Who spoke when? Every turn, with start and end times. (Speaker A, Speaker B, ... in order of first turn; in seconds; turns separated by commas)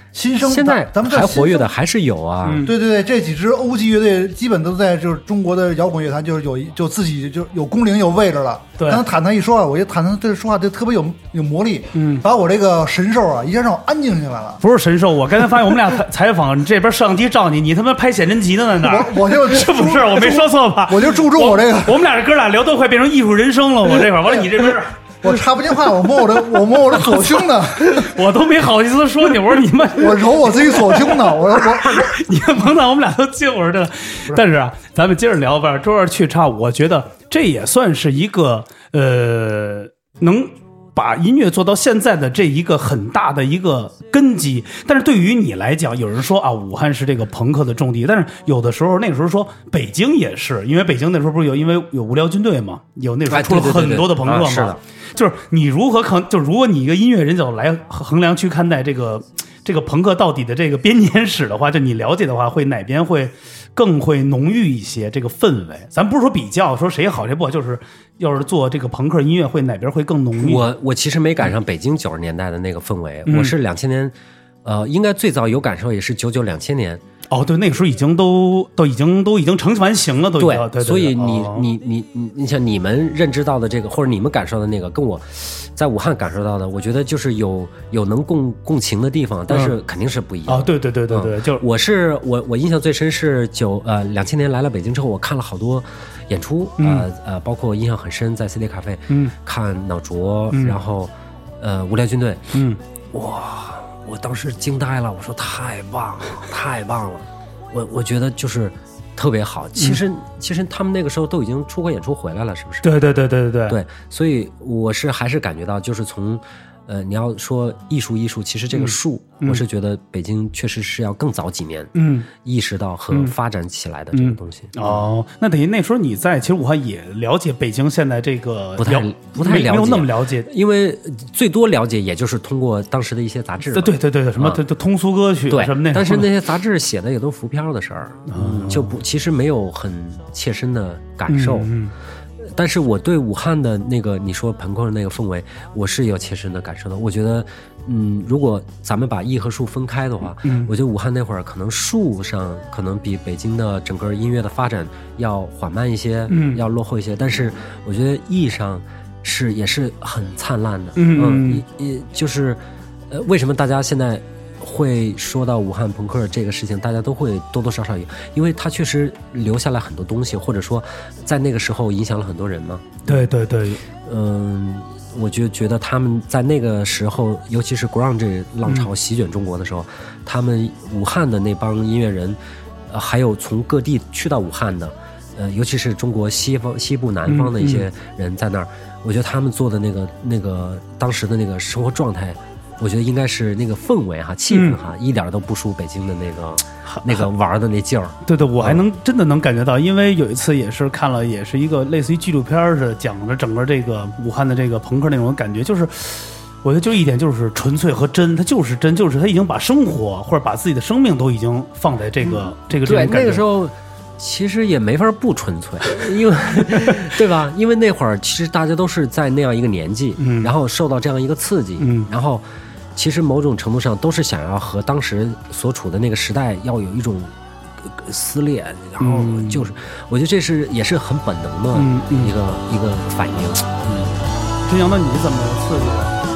Speaker A: 0.1-1.7, Speaker B: 0.4-2.7, Speaker C: 2.4-2.7, Speaker A: 2.6-14.6, Speaker C: 11.9-12.2, Speaker C: 14.6-25.0, Speaker A: 18.8-22.0, Speaker A: 25.2-28.2, Speaker C: 26.9-70.7, Speaker A: 30.0-32.2, Speaker B: 53.3-54.8, Speaker B: 70.4-77.0, Speaker C: 73.3-73.5, Speaker C: 77.3-81.7, Speaker B: 80.4-102.5, Speaker C: 89.5-89.8, Speaker C: 90.5-91.6, Speaker C: 96.8-97.1, Speaker C: 99.1-99.3, Speaker C: 100.5-100.8, Speaker C: 102.5-102.8, Speaker B: 103.1-112.9, Speaker C: 112.8-113.8, Speaker B: 113.7-125.0, Speaker C: 118.7-119.6, Speaker C: 121.9-122.3, Speaker C: 124.1-130.5, Speaker B: 128.8-134.6, Speaker C: 133.7-136.3, Speaker B: 135.5-141.7, Speaker C: 138.3-139.0, Speaker C: 141.3-141.9, Speaker B: 142.4-173.0, Speaker C: 150.4-150.7, Speaker C: 156.3-156.6, Speaker C: 161.0-161.6, Speaker C: 173.1-173.8, Speaker B: 174.0-198.8, Speaker C: 187.3-187.9, Speaker C: 194.5-194.8, Speaker C: 196.9-197.3, Speaker C: 198.3-213.4, Speaker B: 212.2-222.4, Speaker C: 220.2-220.5, Speaker C: 221.8-222.1, Speaker B: 222.9-234.2, Speaker C: 229.0-229.7, Speaker C: 231.7-232.3, Speaker C: 234.7-236.2